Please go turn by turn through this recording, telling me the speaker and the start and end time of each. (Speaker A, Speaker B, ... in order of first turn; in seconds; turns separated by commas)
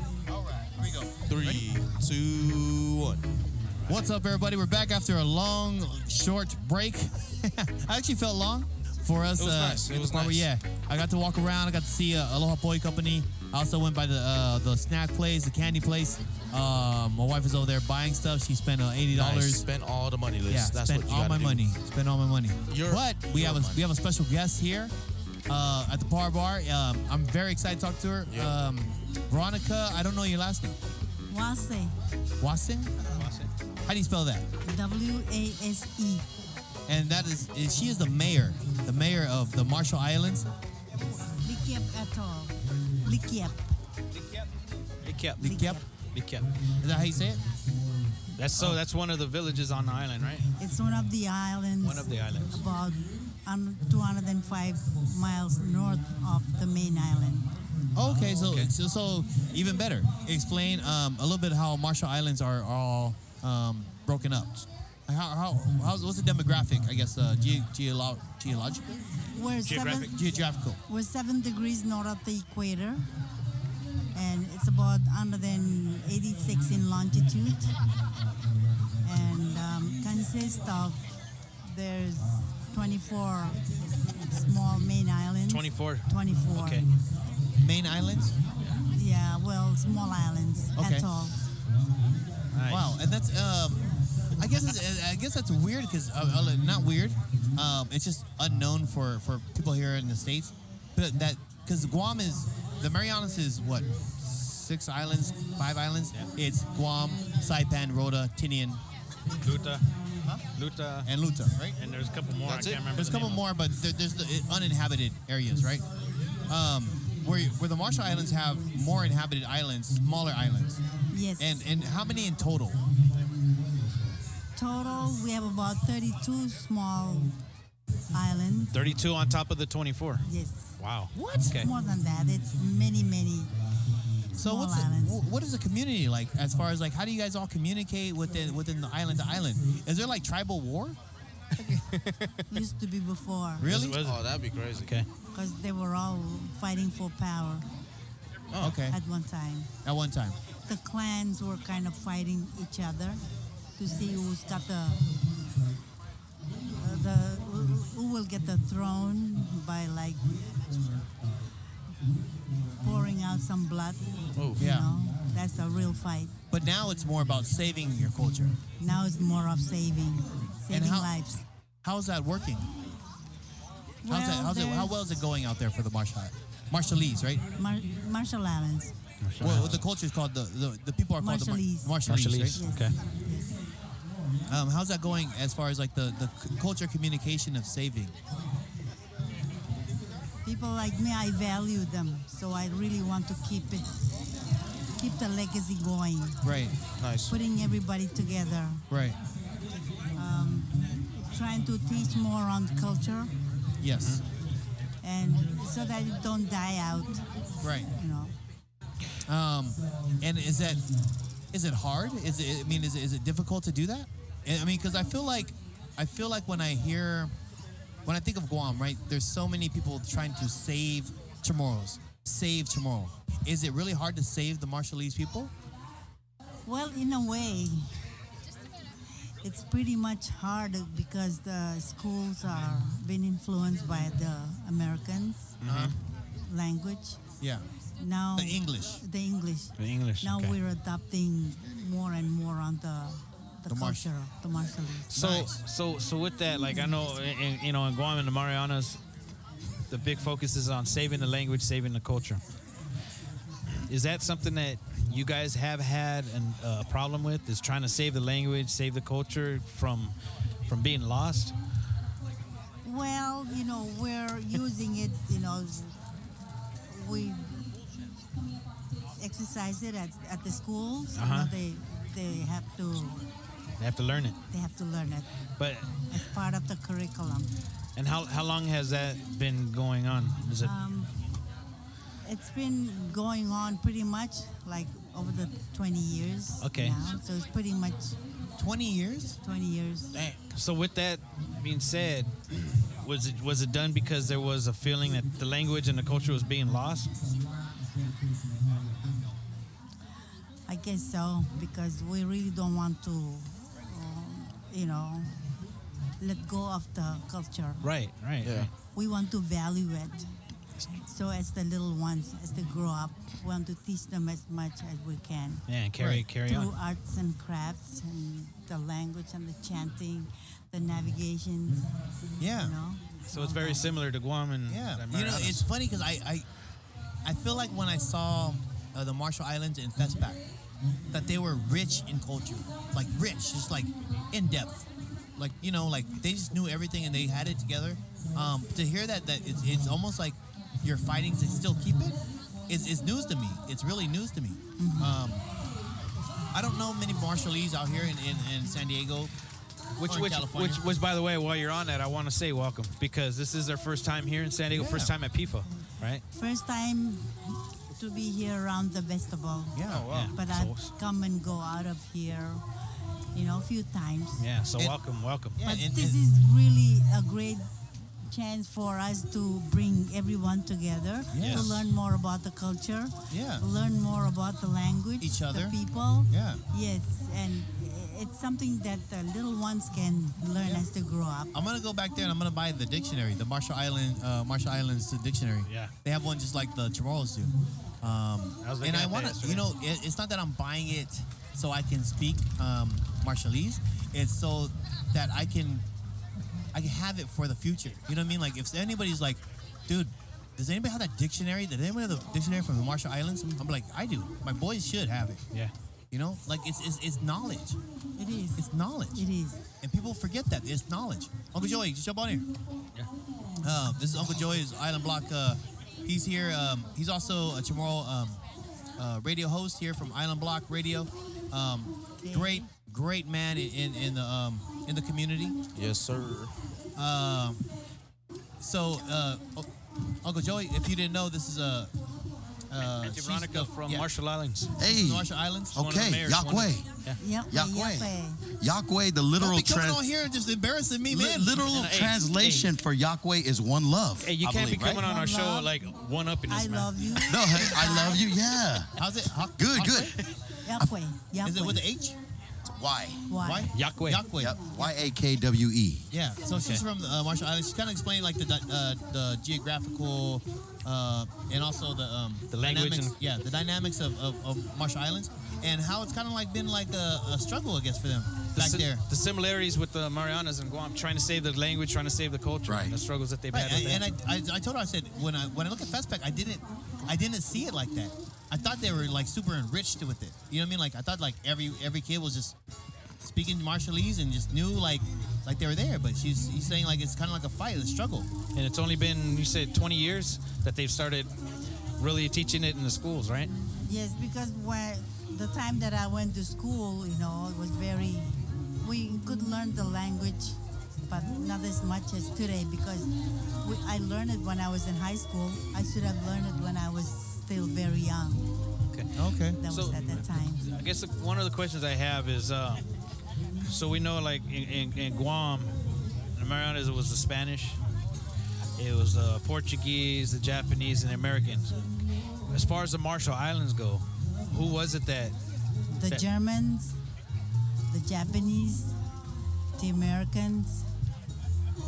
Speaker A: 0.3-1.7, Speaker B: 1.3-3.2, Speaker C: 3.8-4.1, Speaker A: 3.9-19.7, Speaker B: 9.4-10.5, Speaker B: 19.1-21.6, Speaker A: 20.5-24.9, Speaker B: 22.7-23.8, Speaker A: 25.5-30.8, Speaker B: 28.3-28.6, Speaker D: 31.3-31.9, Speaker A: 32.4-32.9, Speaker C: 33.0-33.5, Speaker A: 33.8-34.5, Speaker D: 34.6-36.3, Speaker A: 36.9-40.5, Speaker D: 41.4-43.7, Speaker C: 45.0-46.5, Speaker A: 45.4-45.8, Speaker D: 45.4-45.8, Speaker A: 46.8-47.4, Speaker C: 48.4-50.5, Speaker D: 50.6-57.5, Speaker C: 51.8-52.6, Speaker A: 57.9-68.8, Speaker C: 58.0-58.7, Speaker D: 69.3-70.2, Speaker C: 69.6-70.1, Speaker A: 70.1-70.8, Speaker D: 70.9-73.1, Speaker D: 74.1-77.7, Speaker D: 79.0-81.1, Speaker D: 81.6-83.6, Speaker D: 84.2-86.8, Speaker C: 85.5-86.8, Speaker A: 87.6-88.4, Speaker D: 88.9-91.3, Speaker A: 90.8-91.1, Speaker C: 92.5-92.9, Speaker A: 92.7-108.8, Speaker C: 109.4-109.8, Speaker C: 110.5-111.1, Speaker A: 111.0-111.8, Speaker C: 111.8-113.4, Speaker B: 112.5-112.8, Speaker A: 112.9-115.8, Speaker A: 116.5-120.8, Speaker D: 121.1-121.6, Speaker A: 121.4-122.8, Speaker D: 124.5-127.3, Speaker D: 128.1-128.7, Speaker C: 128.7-130.2, Speaker D: 130.2-130.7, Speaker C: 130.8-131.7, Speaker A: 131.1-131.6, Speaker D: 131.4-133.5, Speaker D: 134.3-135.2, Speaker A: 134.3-141.0, Speaker C: 141.7-142.4, Speaker D: 142.5-143.6, Speaker A: 143.6-144.0, Speaker C: 143.6-145.1, Speaker B: 143.7-144.9, Speaker D: 145.3-147.6, Speaker B: 148.5-148.8, Speaker A: 148.6-149.0, Speaker D: 148.9-149.7, Speaker A: 149.8-150.4, Speaker D: 150.7-153.2, Speaker D: 153.8-155.0, Speaker D: 156.8-160.3, Speaker D: 162.7-166.3, Speaker B: 164.3-164.6, Speaker A: 164.6-164.9, Speaker A: 166.5-168.6, Speaker D: 168.8-171.4, Speaker A: 170.7-171.1, Speaker A: 171.8-172.7, Speaker D: 174.0-174.9, Speaker A: 174.1-177.4, Speaker D: 177.6-178.9, Speaker C: 179.2-179.8, Speaker A: 179.4-182.6, Speaker D: 181.2-183.5, Speaker C: 182.1-182.9, Speaker A: 184.5-188.1, Speaker D: 190.4-194.0, Speaker D: 195.0-196.4, Speaker A: 196.4-196.8, Speaker B: 197.0-197.3, Speaker D: 197.3-198.8, Speaker A: 198.9-199.2, Speaker D: 200.2-203.3, Speaker A: 203.8-204.2, Speaker C: 203.9-204.2, Speaker D: 205.0-207.2, Speaker A: 207.6-207.9, Speaker D: 207.9-208.3, Speaker A: 209.2-210.8, Speaker A: 211.5-217.3, Speaker A: 218.1-225.5, Speaker D: 226.7-227.9, Speaker D: 229.4-235.6, Speaker C: 235.6-235.9, Speaker A: 235.7-235.9, Speaker D: 236.3-237.2, Speaker D: 238.0-245.2, Speaker A: 238.4-239.0, Speaker C: 239.8-240.5, Speaker A: 243.7-244.1, Speaker A: 245.1-245.6, Speaker C: 245.1-249.0, Speaker C: 249.9-252.4, Speaker C: 253.9-260.1, Speaker C: 260.7-261.5, Speaker D: 262.8-265.9, Speaker D: 266.9-267.6, Speaker D: 269.2-273.2, Speaker C: 271.1-271.5, Speaker C: 273.8-274.4, Speaker D: 274.5-275.3, Speaker C: 275.6-275.9, Speaker D: 276.1-277.5, Speaker C: 277.9-280.7, Speaker D: 280.6-281.1, Speaker D: 282.2-288.2, Speaker C: 286.6-287.1, Speaker A: 288.6-289.4, Speaker D: 289.4-290.1, Speaker B: 290.1-290.4, Speaker C: 290.5-297.1, Speaker D: 300.7-305.5, Speaker D: 306.2-307.8, Speaker C: 307.8-308.7, Speaker B: 308.4-308.7, Speaker D: 308.9-310.3, Speaker D: 310.9-315.6, Speaker C: 315.7-316.7, Speaker A: 316.0-316.2, Speaker D: 316.4-321.9, Speaker A: 322.4-322.7, Speaker D: 322.4-323.9, Speaker C: 323.3-325.6, Speaker A: 324.7-326.4, Speaker A: 327.2-330.4, Speaker A: 331.1-334.8, Speaker A: 335.4-345.4, Speaker D: 344.8-345.1, Speaker A: 346.5-349.3, Speaker C: 350.0-356.2, Speaker A: 350.1-350.8, Speaker A: 354.7-355.1, Speaker D: 356.3-359.8, Speaker A: 359.7-360.2, Speaker B: 359.9-360.3, Speaker C: 360.0-360.9, Speaker D: 360.3-362.6, Speaker D: 363.3-364.4, Speaker C: 364.4-365.6, Speaker A: 365.6-366.2, Speaker D: 365.6-367.7, Speaker D: 368.2-381.5, Speaker A: 371.3-371.8, Speaker C: 371.4-371.6, Speaker A: 373.3-373.6, Speaker A: 375.2-375.8, Speaker A: 376.3-376.6, Speaker A: 381.5-395.8, Speaker C: 385.6-385.9, Speaker C: 388.6-389.6, Speaker A: 396.7-405.4, Speaker A: 406.1-407.8, Speaker D: 408.2-409.6, Speaker A: 408.6-409.2, Speaker A: 409.8-412.4, Speaker A: 413.6-418.4, Speaker A: 419.0-425.6, Speaker D: 422.2-422.7, Speaker B: 425.7-426.5, Speaker A: 426.9-427.6, Speaker A: 428.6-429.7, Speaker A: 430.2-431.9, Speaker A: 432.7-434.0, Speaker C: 432.8-434.7, Speaker E: 434.8-436.9, Speaker A: 434.8-435.8, Speaker C: 435.8-437.2, Speaker D: 437.2-438.4, Speaker E: 437.5-440.1, Speaker A: 439.4-441.6, Speaker E: 441.1-445.0, Speaker C: 441.6-442.7, Speaker C: 444.2-446.9, Speaker D: 444.9-445.7, Speaker D: 446.5-448.3, Speaker E: 447.2-449.0, Speaker A: 449.0-450.1, Speaker E: 449.6-450.1, Speaker C: 449.8-450.2, Speaker D: 450.6-451.8, Speaker A: 451.4-452.2, Speaker E: 452.6-453.2, Speaker D: 453.3-453.7, Speaker A: 453.4-454.6, Speaker C: 453.7-454.2, Speaker E: 454.4-456.1, Speaker A: 456.1-469.0, Speaker C: 456.6-456.8, Speaker C: 462.5-463.1, Speaker C: 468.5-474.0, Speaker E: 472.6-472.9, Speaker A: 473.5-482.5, Speaker A: 483.2-488.3, Speaker C: 488.5-491.3, Speaker C: 492.0-493.5, Speaker D: 493.8-500.6, Speaker D: 501.1-503.1, Speaker D: 503.6-508.4, Speaker A: 509.1-509.6, Speaker D: 509.6-510.6, Speaker C: 509.6-512.8, Speaker C: 513.6-515.7, Speaker C: 516.4-517.8, Speaker C: 518.8-521.8, Speaker C: 522.5-525.4, Speaker D: 525.9-527.0, Speaker D: 527.9-528.9, Speaker D: 529.8-530.9